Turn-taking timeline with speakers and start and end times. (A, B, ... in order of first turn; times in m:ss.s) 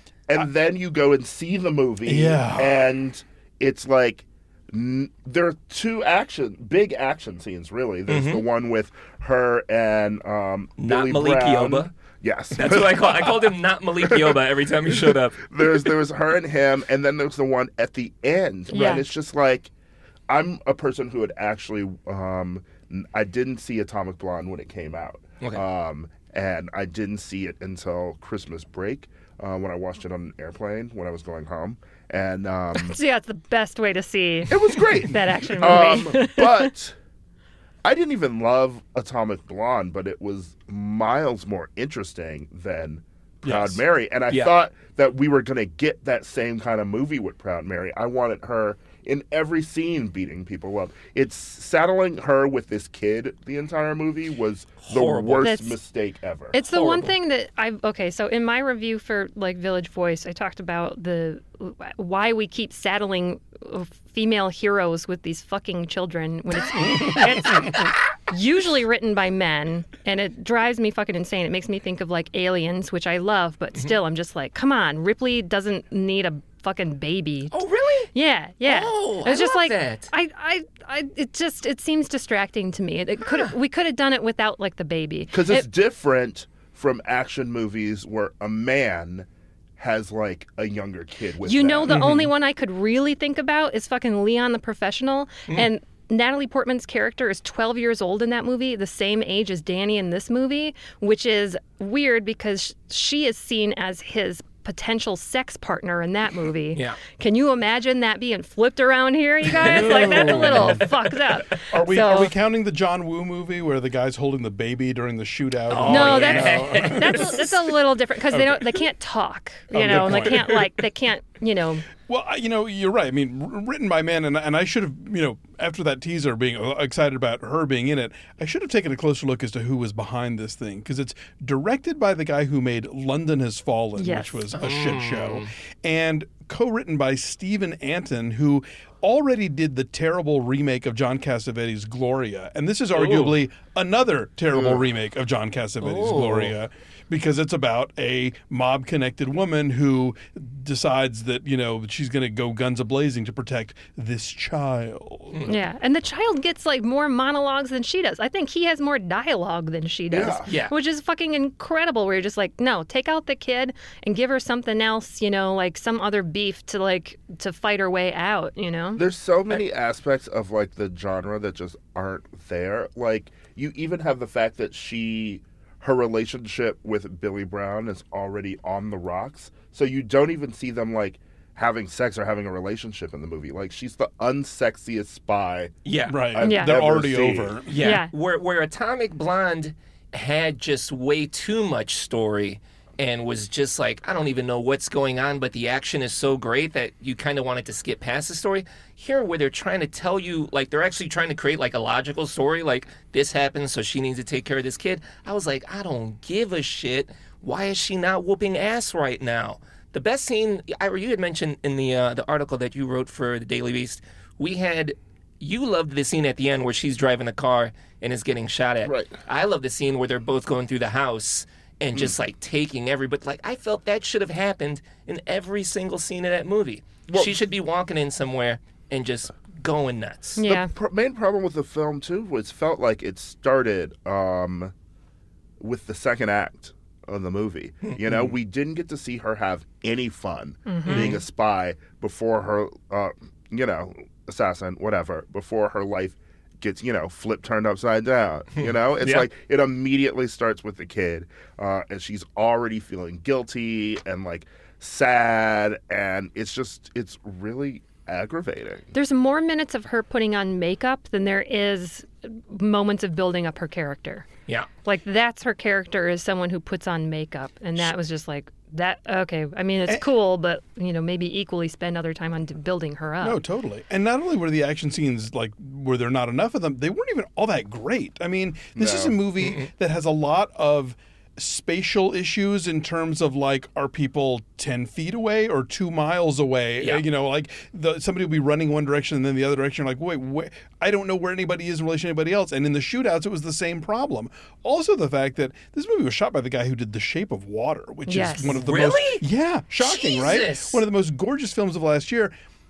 0:00.3-0:19.7 A
0:02.1-0:02.8 B
0:08.1-0:08.4 C
0:10.8-0:11.9 C
0:12.5-0:15.6 C
0:18.7-0:19.1 D
0:20.3-0:33.0 A
0:32.8-0:36.7 D
0:34.5-0:37.0 A
0:37.8-0:57.0 A
0:43.4-0:43.8 B
0:54.8-0:55.5 C
0:55.4-0:55.8 D
0:56.5-1:17.6 D
1:17.5-1:18.1 C
1:18.1-1:25.7 D
1:18.6-1:20.1 C
1:25.3-1:29.3 A
1:29.8-1:31.9 A
1:31.4-1:52.3 D
1:31.9-1:32.3 B
1:49.6-1:50.9 B
1:49.6-1:50.9 C
1:51.7-1:57.4 B
1:55.7-1:57.5 C
1:55.9-2:01.8 D
1:58.3-1:58.6 B
1:59.7-2:00.6 B
1:59.9-2:00.5 C
2:02.1-2:35.5 B
2:14.0-2:14.4 D
2:14.5-2:15.5 C
2:23.0-2:23.4 C
2:24.5-2:24.8 A
2:25.8-2:26.6 C
2:35.5-2:49.0 D
2:40.1-2:40.5 A
2:40.4-2:40.7 C
2:49.0-3:07.6 A
3:05.8-3:06.2 C
3:06.1-3:07.7 B
3:06.4-3:06.8 D
3:07.7-3:50.4 C
3:07.8-3:08.1 D
3:38.8-3:39.2 A
3:47.1-3:47.3 A
3:50.4-3:50.7 D
3:50.4-3:54.7 A
3:55.6-4:18.9 A
4:00.7-4:01.2 D
4:00.8-4:01.2 C
4:08.6-4:09.3 C
4:18.9-4:24.3 D
4:24.8-4:33.4 D
4:33.2-5:02.3 B
4:38.8-4:39.2 A
4:39.4-4:39.7 C
4:58.1-4:58.6 D
4:58.6-4:59.2 C
4:59.8-5:00.8 C